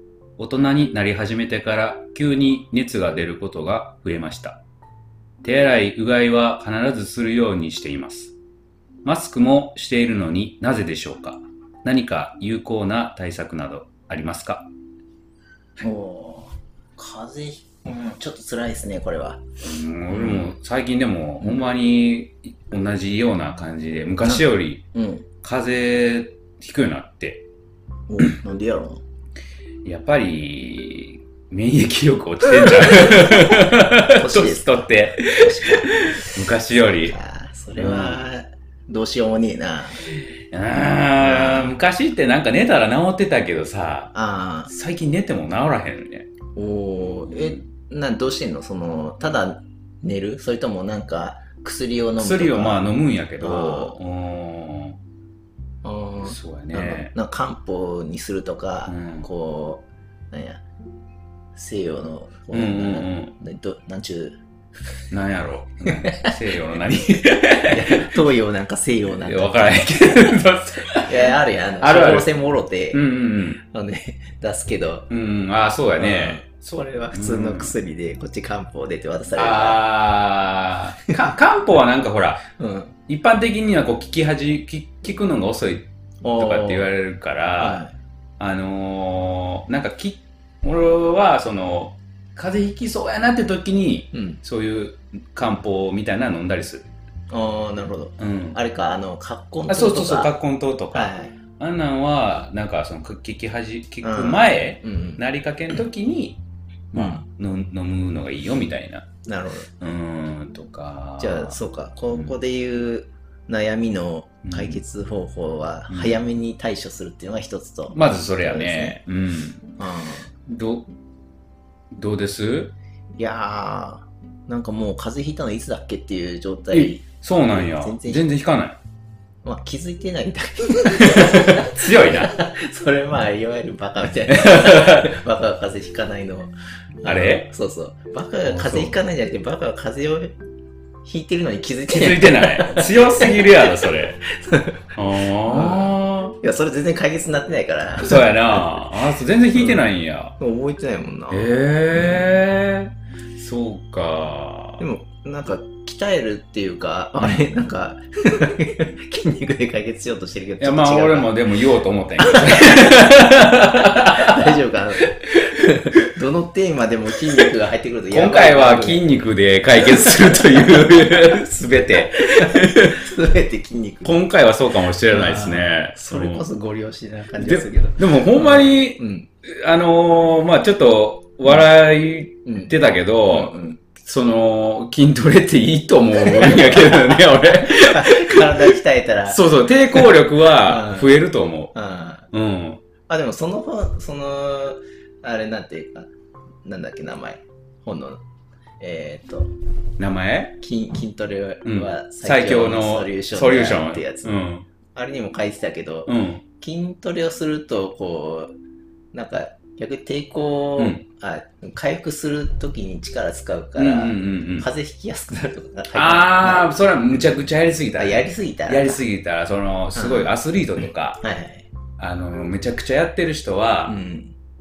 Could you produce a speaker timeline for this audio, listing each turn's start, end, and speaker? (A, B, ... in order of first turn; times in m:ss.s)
0:00.4-0:04.6 A
0:05.4-0:08.3 A
0:09.0-0:14.6 A
0:15.8-0:19.4 B
0:19.6-0:24.8 A
0:20.1-0:20.5 B
0:24.2-0:25.2 B
0:25.4-0:27.4 A
0:28.1-0:29.0 B
0:29.8-0:37.2 A
0:32.5-0:40.1 B
0:37.7-0:38.2 A
0:40.1-0:44.1 A
0:41.2-0:41.7 B
0:44.1-0:44.7 B
0:44.7-0:46.3 A
0:46.6-0:54.0 B
0:47.0-0:47.6 A
0:52.2-0:55.0 A
0:55.8-1:00.6 B
0:56.2-0:57.1 A
0:58.9-0:59.3 A
1:01.5-1:04.4 B
1:02.5-1:03.3 A
1:05.1-1:08.2 A
1:05.9-1:06.3 B
1:07.6-1:10.4 B
1:09.2-1:12.3 A
1:11.0-1:13.0 B
1:12.9-1:13.6 A
1:13.6-1:15.1 B
1:15.1-1:17.7 A
1:16.0-1:19.8 B
1:19.3-1:22.4 A
1:22.6-1:22.9 B
1:23.1-1:27.8 A
1:26.2-1:26.9 B
1:27.6-1:27.9 B
1:28.4-1:36.8 A
1:34.1-1:34.4 B
1:37.3-1:40.3 B
1:38.2-1:38.6 A
1:39.7-1:46.4 A
1:40.9-1:41.3 B
1:44.0-1:45.2 B
1:46.9-1:49.1 A
1:46.9-1:47.2 B
1:49.2-1:49.7 B
1:49.8-1:51.6 A
1:51.2-1:59.0 B
1:54.4-1:54.8 A
1:55.9-1:56.2 A
1:57.9-1:59.7 A
1:59.8-2:00.3 B
2:00.5-2:00.9 A
2:01.9-2:02.7 A
2:03.2-2:08.3 B
2:06.7-2:08.8 A
2:09.4-2:20.3 B
2:11.0-2:12.3 A
2:14.3-2:15.1 A
2:17.0-2:17.5 A
2:18.4-2:19.0 A
2:21.0-2:28.9 B
2:21.9-2:24.2 A
2:24.9-2:26.3 A
2:28.0-2:30.4 A
2:29.5-2:32.4 B
2:31.3-2:34.8 A
2:34.8-2:41.4 B
2:40.6-2:44.5 A
2:42.2-2:49.0 B
2:48.1-2:53.0 A
2:49.7-2:51.2 B
2:51.9-2:54.2 B
2:54.0-2:56.5 A
2:55.1-2:59.3 B
2:57.4-3:11.7 A
3:02.4-3:02.8 B
3:03.3-3:03.8 B
3:06.1-3:11.2 B
3:11.7-3:12.3 B
3:12.3-3:12.8 A
3:13.1-3:16.1 B
3:16.6-3:18.2 B
3:18.8-3:19.5 B
3:20.0-3:20.6 A
3:20.6-3:24.4 B
3:21.6-3:24.7 A
3:24.9-3:28.5 B
3:26.0-3:26.4 A
3:29.1-3:36.7 B
3:30.8-3:31.0 A
3:33.7-3:34.7 A
3:35.9-3:41.2 A
3:38.0-3:39.0 B
3:39.9-3:41.7 B
3:42.0-3:43.9 A
3:43.8-3:44.3 B